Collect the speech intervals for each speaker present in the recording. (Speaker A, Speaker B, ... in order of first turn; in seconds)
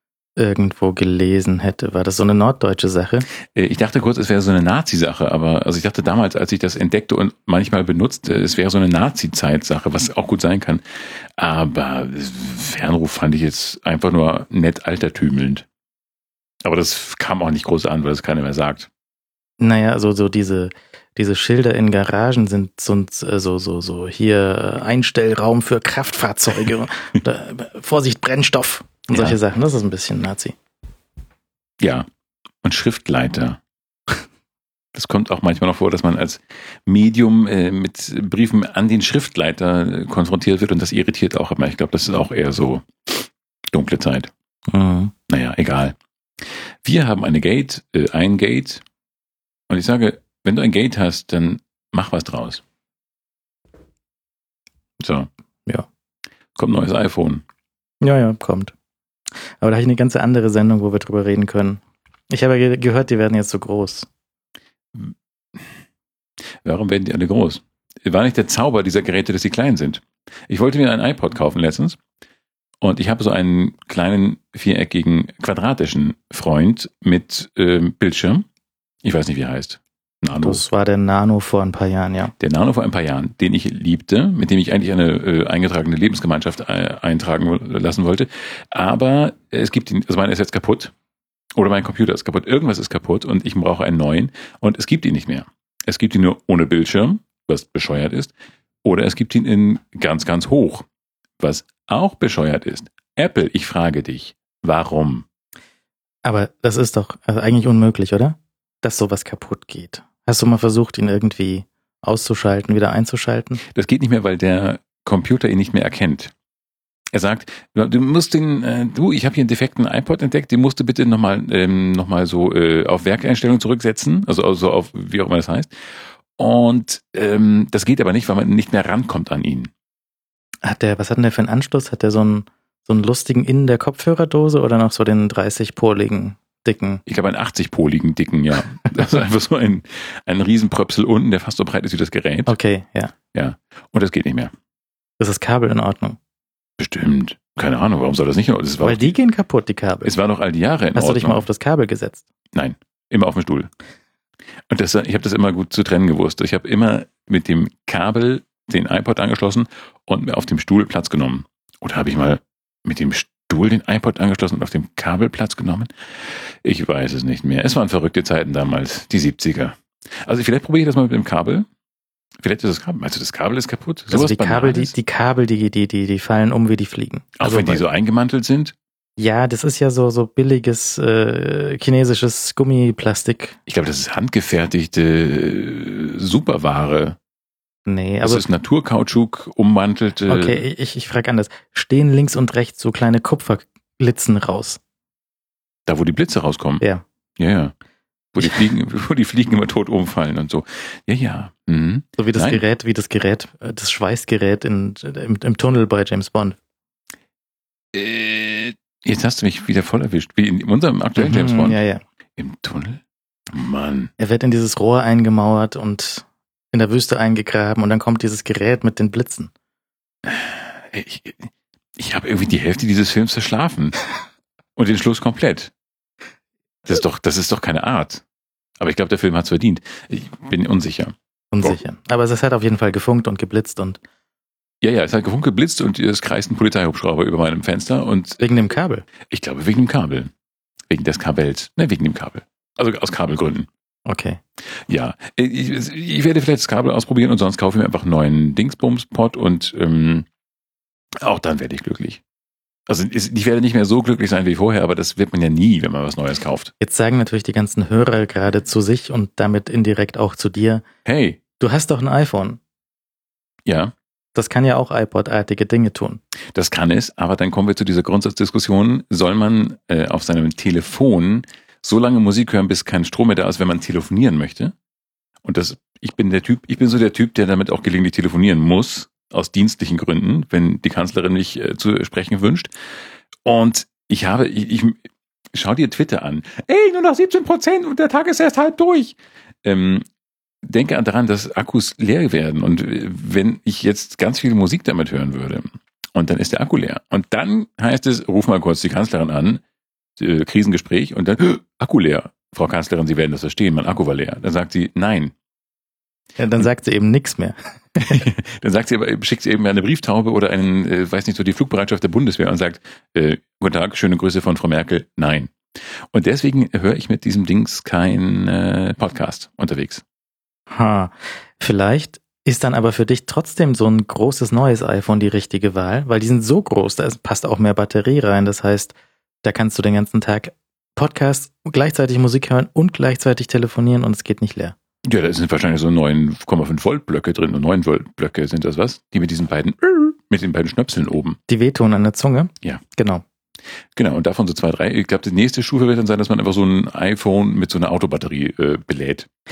Speaker A: 0.4-3.3, 19.6-30.6, 44.7-45.1, 58.0-58.7, 59.6-64.1, 80.4-82.3, 106.2-113.6, 130.6-137.0, 142.5-143.1, 145.2-146.2, 148.8-150.1, 150.9-152.2, 174.1-177.8, 179.2-183.6, 187.9-188.4, 190.3-194.8, 202.2-206.6, 211.2-212.0, 214.2-219.5, 231.5-234.0, 238.4-239.0, 244.1-244.4, 256.8-260.8, 261.6-262.6, 264.3-266.2, 306.4-308.2, 320.7-334.7, 341.5-343.2
Speaker B: 3.4-15.7, 16.6-18.9, 29.1-29.4, 31.8-32.1, 32.6-33.6, 34.9-44.3, 45.3-48.8, 49.7-52.6, 55.0-55.3, 56.5-57.4, 64.9-65.7, 66.6-72.0, 72.8-78.5, 79.0-80.6, 82.4-90.9, 91.5-98.3, 98.8-100.8, 101.4-105.2, 113.6-116.3, 117.1-125.7, 126.3-129.7, 137.1-142.6, 143.3-144.5, 146.8-149.1, 150.0-151.4, 152.5-153.7, 154.7-171.7, 172.4-174.9, 177.4-178.7, 183.7-187.2, 188.2-190.6, 195.9-196.8, 197.4-197.7, 198.3-202.6, 207.9-211.8, 212.3-214.1, 220.2-224.0, 224.8-225.7, 226.8-228.2, 228.8-231.8, 234.8-238.4, 239.3-240.3, 240.9-243.7, 244.7-250.3, 251.2-252.2, 252.9-256.7, 261.0-261.4, 263.6-263.9, 266.5-274.7, 275.4-282.7, 283.4-290.1, 290.6-299.6, 300.2-305.3, 308.0-320.0, 335.0-341.4, 343.9-349.3